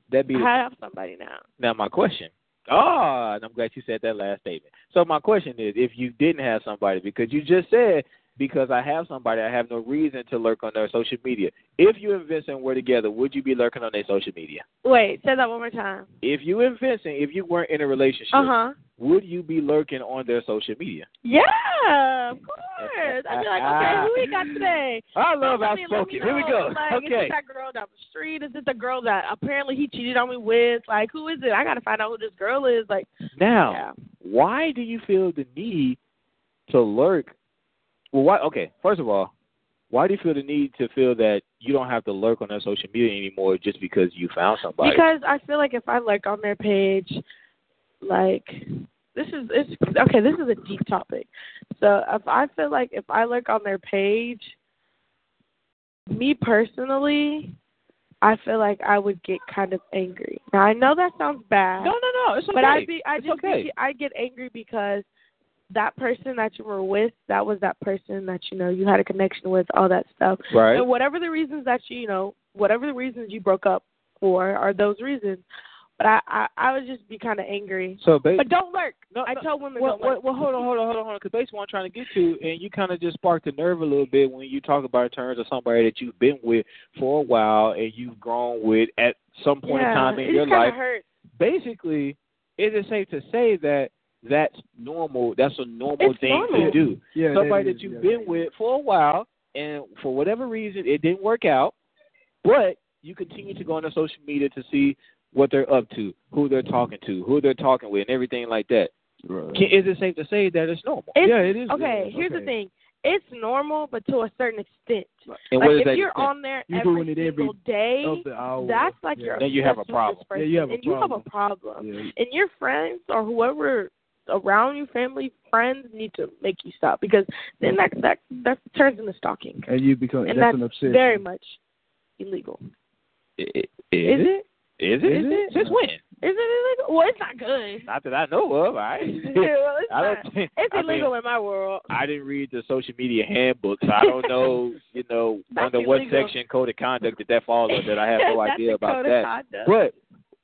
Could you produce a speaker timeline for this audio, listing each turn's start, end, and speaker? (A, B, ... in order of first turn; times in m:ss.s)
0:00.1-0:00.5 A
0:00.3-0:01.4 B
0:01.6-0:14.6 A
0:14.8-0:16.1 B
0:16.2-0:21.1 A
0:18.3-0:18.7 B
0:21.2-0:33.1 B
0:22.8-0:24.6 A
0:25.1-0:27.3 A
0:33.4-0:36.0 A
0:33.7-0:33.9 B
0:36.7-0:37.3 A
0:38.1-0:39.3 A
0:39.9-0:45.0 A
0:44.8-0:47.2 B
0:48.0-0:54.5 B
0:56.1-0:57.5 B
0:58.2-1:01.9 B
1:01.8-1:03.7 A
1:02.5-1:05.0 B
1:05.7-1:15.4 B
1:10.5-1:10.8 A
1:16.0-1:20.6 B
1:18.0-1:18.4 A
1:19.1-1:30.8 A
1:29.6-1:31.0 B
1:31.4-1:41.7 A
1:36.0-1:36.8 B
1:36.5-1:38.5 C
1:42.4-1:48.9 A
1:49.2-1:49.7 C
1:49.5-1:51.1 A
1:51.1-2:09.7 B
1:51.2-1:52.5 C
1:55.5-1:56.3 A
1:56.7-1:59.5 C
1:59.4-2:00.2 A
2:00.3-2:01.2 C
2:01.8-2:02.1 C
2:09.7-2:11.2 C
2:10.3-2:11.6 B
2:12.2-2:12.6 B
2:13.4-2:16.0 A
2:14.0-2:14.4 B
2:15.0-2:15.8 C
2:16.2-2:17.9 B
2:17.9-2:21.1 A
2:19.0-2:21.9 B
2:21.9-2:29.9 A
2:24.0-2:24.5 B
2:25.5-2:26.3 B
2:27.7-2:29.7 B